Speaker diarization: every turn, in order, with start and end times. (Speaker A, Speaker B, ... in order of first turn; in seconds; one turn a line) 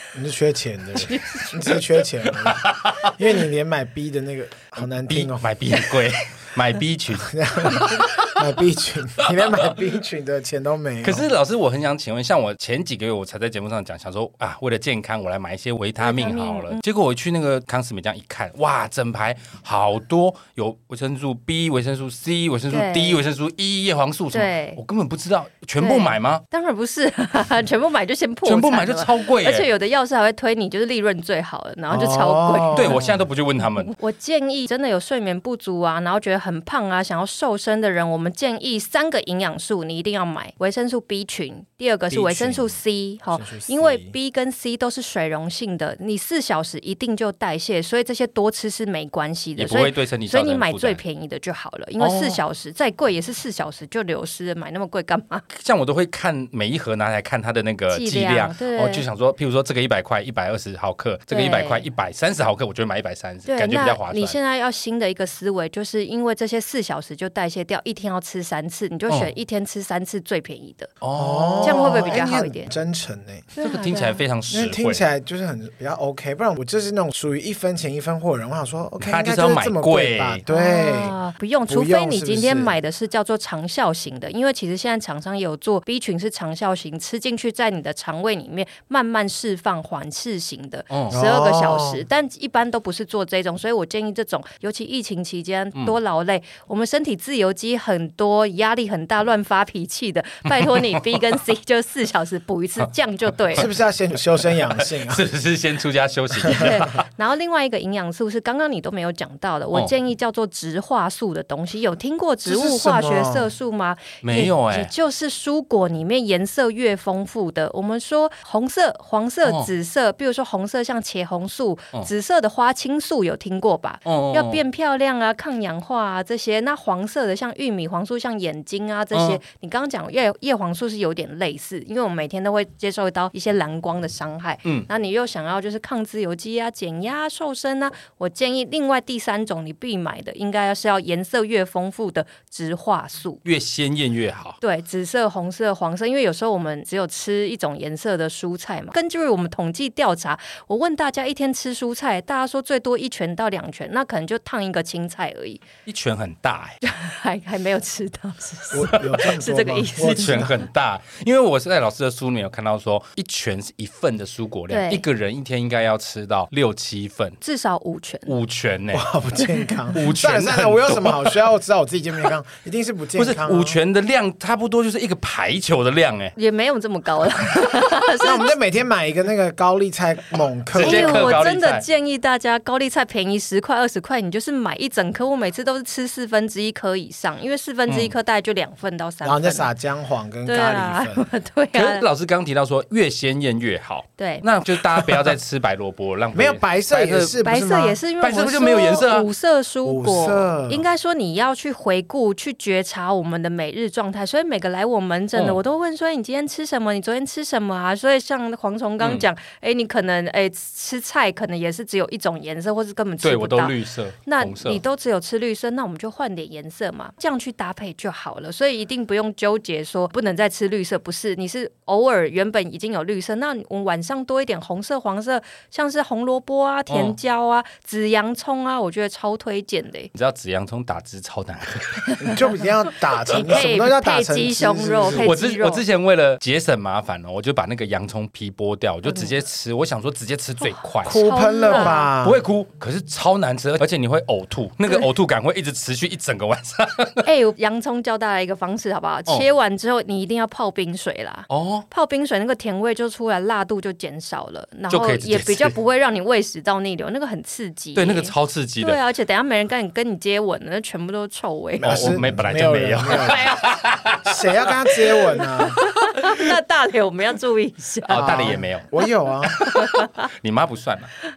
Speaker A: 0.1-5.5
Speaker B: 1.0-1.6
Speaker C: 2.3-3.2
Speaker C: 5.0-8.4
Speaker A: 7.2-11.2
Speaker C: 9.2-9.7
Speaker C: 11.0-26.4
Speaker B: 16.0-16.8
Speaker B: 22.7-23.2
Speaker B: 24.3-24.8
Speaker B: 25.8-33.0
Speaker C: 28.4-29.7
Speaker A: 31.9-33.2
Speaker C: 32.7-33.9
Speaker B: 33.6-55.5
Speaker A: 42.1-42.8
Speaker A: 43.3-44.1
Speaker C: 49.6-51.0
Speaker C: 52.0-52.4
Speaker C: 55.5-64.4
Speaker B: 57.9-59.0
Speaker B: 61.3-61.9
Speaker B: 63.5-71.0
Speaker C: 71.0-72.2
Speaker A: 71.2-73.5
Speaker B: 71.6-72.7
Speaker B: 73.6-74.2
Speaker C: 73.6-75.0
Speaker A: 74.5-81.2
Speaker C: 79.0-80.4
Speaker B: 80.5-103.7
Speaker A: 81.7-82.8
Speaker C: 90.9-91.2
Speaker A: 91.1-92.0
Speaker C: 100.5-101.2
Speaker A: 103.5-105.2
Speaker C: 104.4-107.0
Speaker B: 106.5-143.4
Speaker A: 112.4-113.5
Speaker C: 114.2-114.9
Speaker C: 124.1-124.6
Speaker C: 129.1-129.4
Speaker C: 143.4-144.6
Speaker B: 144.6-155.6
Speaker C: 155.8-156.8
Speaker B: 156.8-160.5
Speaker A: 158.7-160.6
Speaker C: 160.0-167.4
Speaker B: 164.7-165.0
Speaker B: 167.4-168.3
Speaker C: 168.3-169.1
Speaker A: 168.9-173.8
Speaker B: 169.4-169.8
Speaker C: 169.9-171.4
Speaker C: 173.2-176.3
Speaker B: 176.4-178.5
Speaker A: 178.2-181.5
Speaker C: 180.7-181.8
Speaker B: 180.8-189.7
Speaker C: 187.9-188.1
Speaker A: 189.2-191.3
Speaker B: 190.5-192.1
Speaker C: 191.7-197.4
Speaker B: 194.2-194.4
Speaker A: 196.3-198.0
Speaker B: 197.4-213.8
Speaker C: 198.2-199.3
Speaker A: 199.8-200.9
Speaker C: 205.3-205.6
Speaker C: 209.0-209.3
Speaker C: 213.2-214.8
Speaker B: 214.3-230.1
Speaker C: 226.9-227.2
Speaker C: 230.1-232.3
Speaker A: 232.2-235.3
Speaker B: 233.3-235.8
Speaker C: 235.2-247.3
Speaker B: 239.1-239.3
Speaker B: 240.6-242.1
Speaker A: 241.0-242.4
Speaker B: 247.2-262.2
Speaker C: 251.5-251.8
Speaker C: 254.9-255.8
Speaker C: 258.0-259.0
Speaker A: 261.8-263.5
Speaker C: 261.8-266.5
Speaker B: 263.1-263.6
Speaker A: 264.2-265.8
Speaker B: 265.7-268.4
Speaker C: 268.1-268.9
Speaker A: 268.1-269.6
Speaker C: 269.5-271.1
Speaker B: 269.7-270.1